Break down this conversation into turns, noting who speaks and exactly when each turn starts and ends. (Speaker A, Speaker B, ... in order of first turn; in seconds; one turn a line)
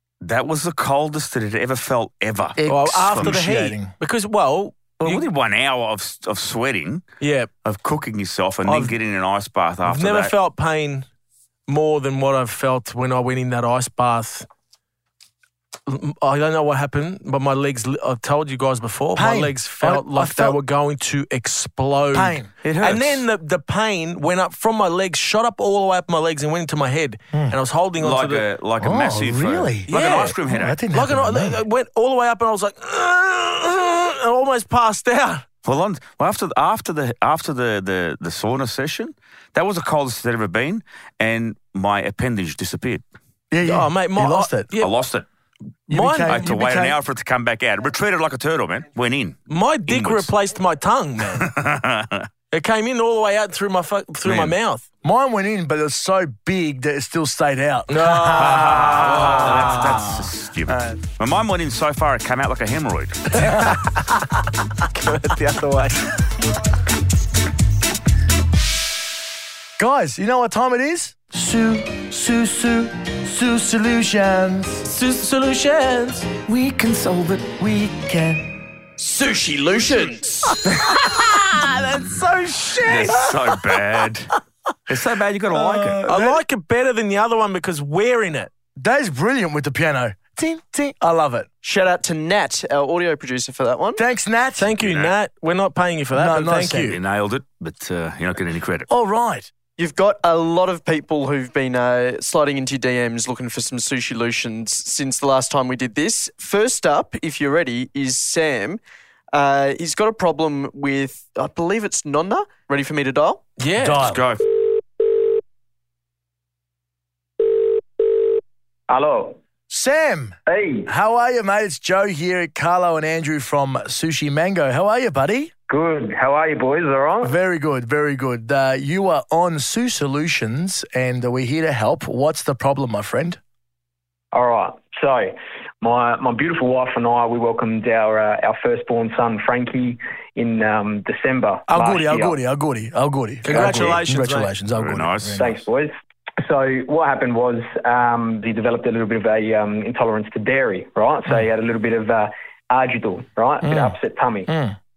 Speaker A: 0.2-3.3
Speaker B: 2.6-3.9
Speaker C: 2.7-5.2
Speaker A: 5.0-7.0
Speaker C: 7.2-7.5
Speaker A: 7.6-10.3
Speaker C: 8.6-8.9
Speaker C: 9.8-11.1
Speaker C: 11.7-14.5
Speaker C: 15.9-28.4
Speaker B: 19.1-20.6
Speaker B: 22.1-22.5
Speaker A: 22.6-23.2
Speaker A: 28.0-30.8
Speaker B: 28.8-31.6
Speaker C: 29.9-30.3
Speaker C: 30.9-35.4
Speaker A: 35.6-43.0
Speaker B: 43.5-44.7
Speaker C: 43.6-44.9
Speaker A: 44.8-45.2
Speaker B: 45.9-47.0
Speaker C: 45.9-46.4
Speaker A: 46.3-50.3
Speaker C: 49.5-51.5
Speaker A: 51.4-52.3
Speaker C: 52.5-54.8
Speaker A: 54.2-54.5
Speaker B: 55.0-61.0
Speaker C: 57.9-59.8
Speaker A: 58.4-63.5
Speaker B: 63.4-63.7
Speaker C: 64.9-66.1
Speaker B: 69.8-74.8
Speaker C: 74.8-76.3
Speaker A: 76.5-77.9
Speaker B: 77.7-78.5
Speaker C: 79.0-83.3
Speaker A: 82.8-84.3
Speaker A: 84.9-86.0
Speaker B: 85.5-86.4
Speaker C: 86.1-88.5
Speaker B: 88.8-91.5
Speaker D: 91.6-94.0
Speaker B: 94.0-94.7
Speaker C: 94.6-97.0
Speaker A: 94.8-95.1
Speaker B: 96.1-97.0
Speaker A: 96.9-98.9
Speaker B: 98.9-99.5
Speaker D: 99.8-108.8
Speaker D: 109.3-113.4
Speaker C: 113.6-114.0
Speaker B: 113.8-114.2
Speaker A: 114.0-114.4
Speaker E: 118.9-119.4
Speaker B: 119.7-125.5
Speaker E: 120.5-120.9
Speaker E: 125.7-127.3
Speaker B: 127.2-133.4
Speaker E: 134.3-142.4
Speaker B: 141.7-145.6
Speaker C: 143.4-144.5
Speaker A: 143.5-143.9
Speaker A: 144.8-145.5
Speaker E: 145.4-154.5
Speaker B: 153.6-154.0
Speaker B: 154.5-154.8